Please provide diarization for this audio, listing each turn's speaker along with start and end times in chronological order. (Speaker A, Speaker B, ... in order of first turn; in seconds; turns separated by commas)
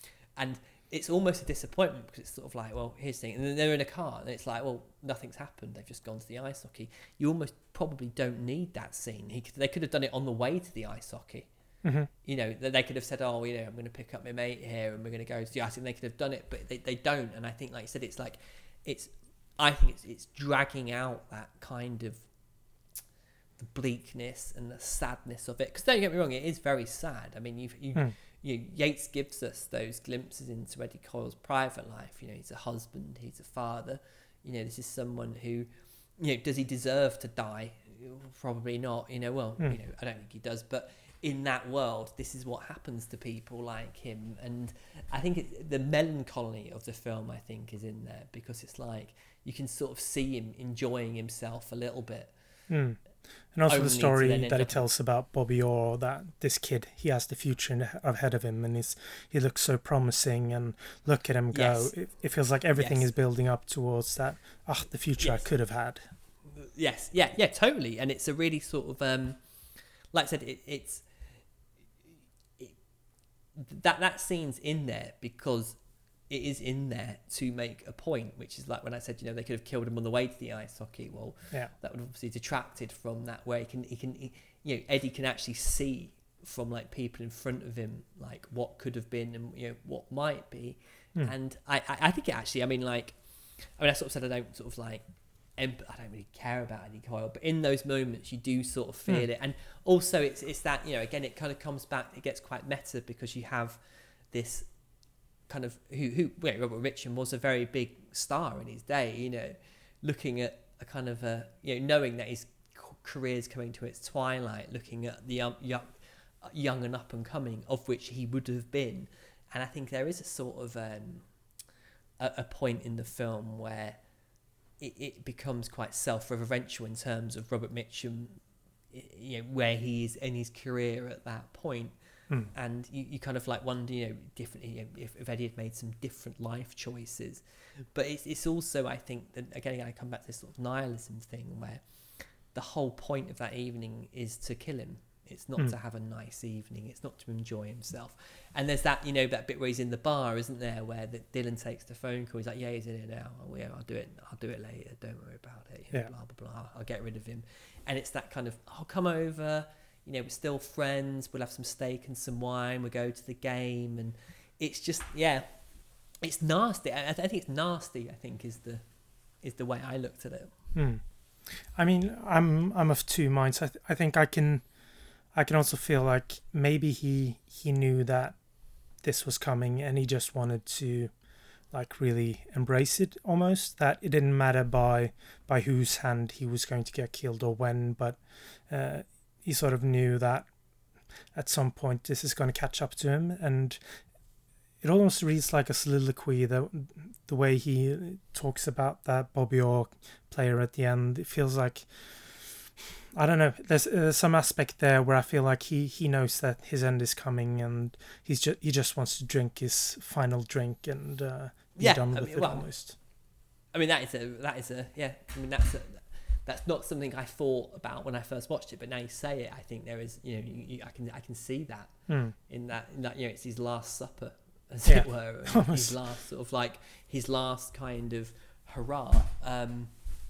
Speaker A: 0.3-11.5, Speaker B: 11.8-12.1, Speaker A: 12.2-22.2, Speaker A: 23.6-52.3, Speaker B: 52.7-53.0, Speaker B: 53.5-66.1, Speaker A: 53.7-54.9, Speaker A: 61.5-61.9, Speaker A: 62.7-63.1, Speaker A: 65.2-65.4, Speaker A: 66.5-69.4, Speaker A: 70.1-71.0, Speaker A: 73.5-75.8, Speaker A: 76.3-95.0, Speaker A: 95.6-103.8, Speaker A: 104.3-104.7, Speaker A: 105.5-121.2, Speaker A: 122.2-124.0, Speaker A: 124.8-128.4, Speaker A: 128.9-131.9, Speaker A: 132.5-137.4, Speaker A: 137.9-141.8, Speaker A: 142.5-165.4, Speaker A: 166.2-168.8, Speaker A: 169.4-170.5, Speaker B: 170.7-171.0, Speaker B: 171.5-174.6, Speaker B: 175.3-178.3, Speaker B: 179.0-181.1, Speaker B: 181.7-188.2, Speaker B: 188.7-190.5, Speaker B: 191.3-193.8, Speaker B: 194.8-202.6, Speaker B: 203.2-212.9, Speaker A: 211.8-212.7, Speaker A: 213.7-221.9, Speaker B: 222.1-222.3, Speaker A: 222.5-229.9, Speaker B: 224.9-226.0